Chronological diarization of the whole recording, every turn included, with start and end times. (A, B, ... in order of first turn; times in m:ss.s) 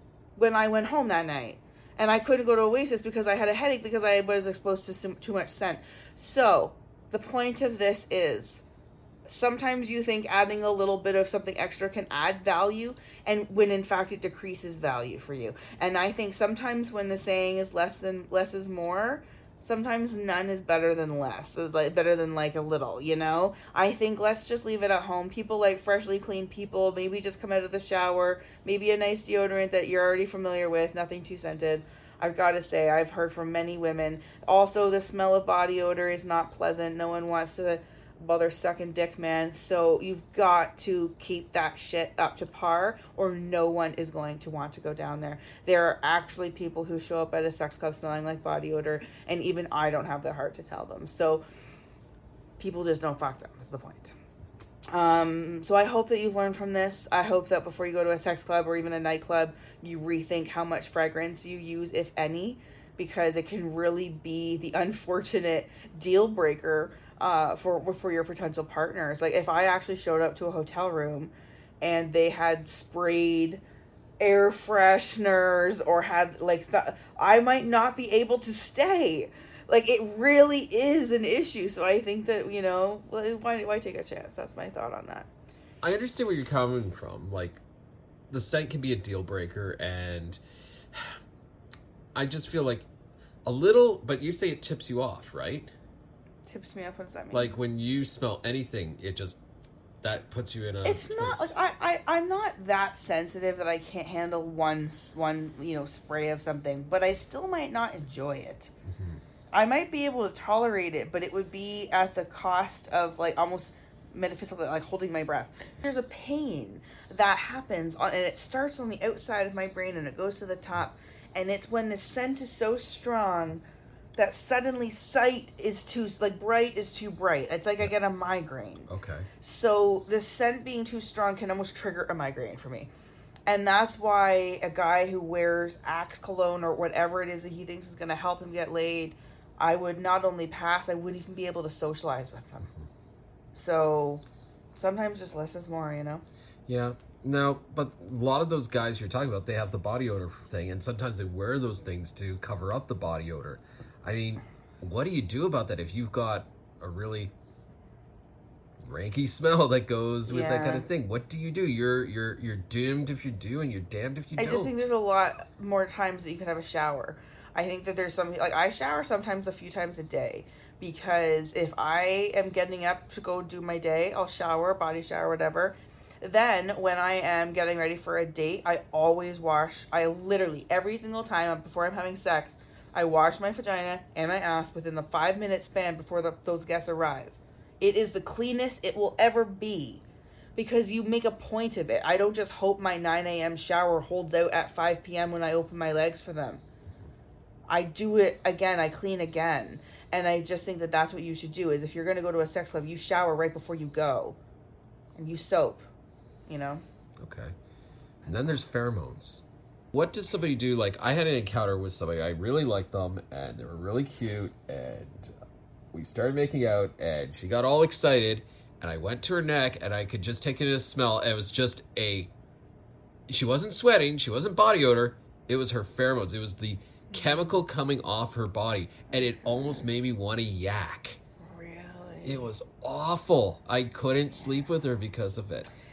0:00.4-0:08.6 A
0:09.3-0:51.4 A
0:52.6-0:54.2 A
0:54.9-1:13.6 A
1:14.2-1:25.3 A
1:25.8-1:27.6 B
1:28.3-1:30.4 B
1:30.9-1:31.2 B
1:32.2-1:32.9 B
1:33.4-1:35.7 B
1:36.5-1:37.5 A
1:37.3-1:39.4 B
1:40.0-1:41.5 B
1:40.8-1:48.7 A
1:48.9-1:49.2 B
1:49.5-2:03.6 A
2:04.2-2:08.9 A
2:08.9-2:09.3 B
2:09.4-2:12.9 A
2:13.5-2:22.7 A
2:23.5-2:24.2 A
2:24.8-2:26.2 A
2:26.7-2:37.3 B
2:38.8-2:44.9 B
2:40.3-2:40.9 A
2:44.4-3:10.0 A
3:10.6-3:16.6 A
3:17.7-3:24.4 A
3:25.2-3:25.9 A
3:26.5-3:26.8 A
3:27.2-3:27.5 B
3:28.2-3:28.7 A
3:28.3-3:35.3 B
3:35.9-3:42.3 B
3:43.3-3:51.2 B
3:47.1-3:47.6 A
3:49.1-3:49.9 A
3:51.4-3:52.5 A
3:52.2-3:55.7 B